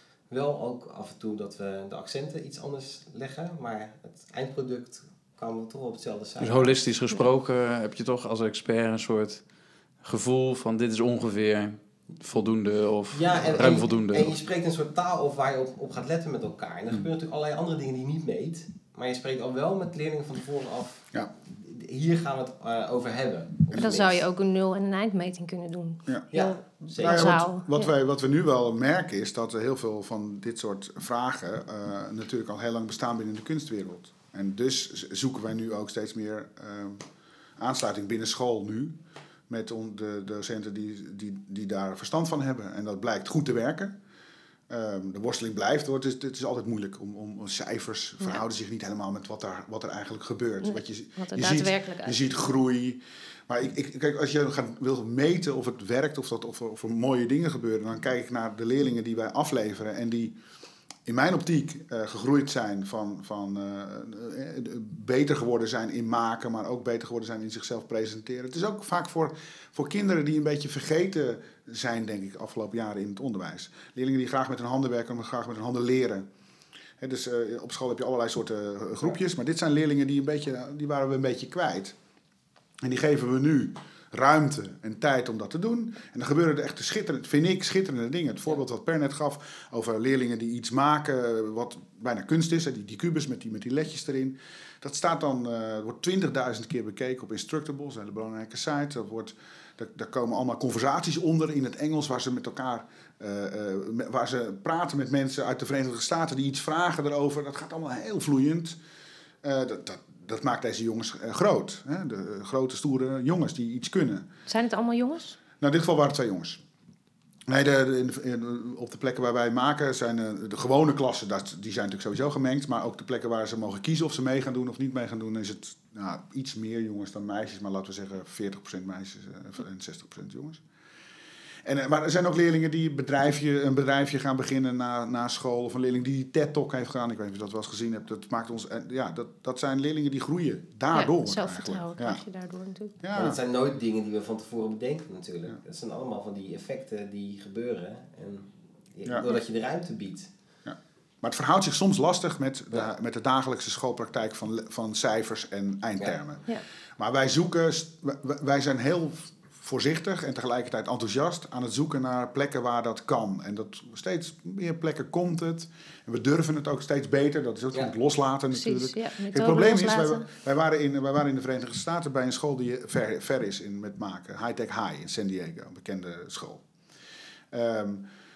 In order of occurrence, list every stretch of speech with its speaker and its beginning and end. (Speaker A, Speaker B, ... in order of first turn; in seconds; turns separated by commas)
Speaker A: 0.3-6.9, Speaker B: 6.4-14.4, Speaker A: 13.1-24.2, Speaker C: 23.7-24.0, Speaker D: 23.8-27.9, Speaker A: 26.3-27.5, Speaker C: 26.9-44.0, Speaker C: 44.7-60.4, Speaker D: 50.6-52.4, Speaker C: 61.0-76.3, Speaker C: 77.0-82.0, Speaker C: 82.8-108.8, Speaker C: 109.4-114.3, Speaker D: 114.5-115.4, Speaker C: 115.6-116.6, Speaker C: 117.5-130.6, Speaker C: 131.6-142.2, Speaker D: 140.9-142.9, Speaker C: 143.0-143.4, Speaker A: 143.1-150.3, Speaker C: 150.6-176.7, Speaker D: 168.5-170.2, Speaker C: 177.5-178.1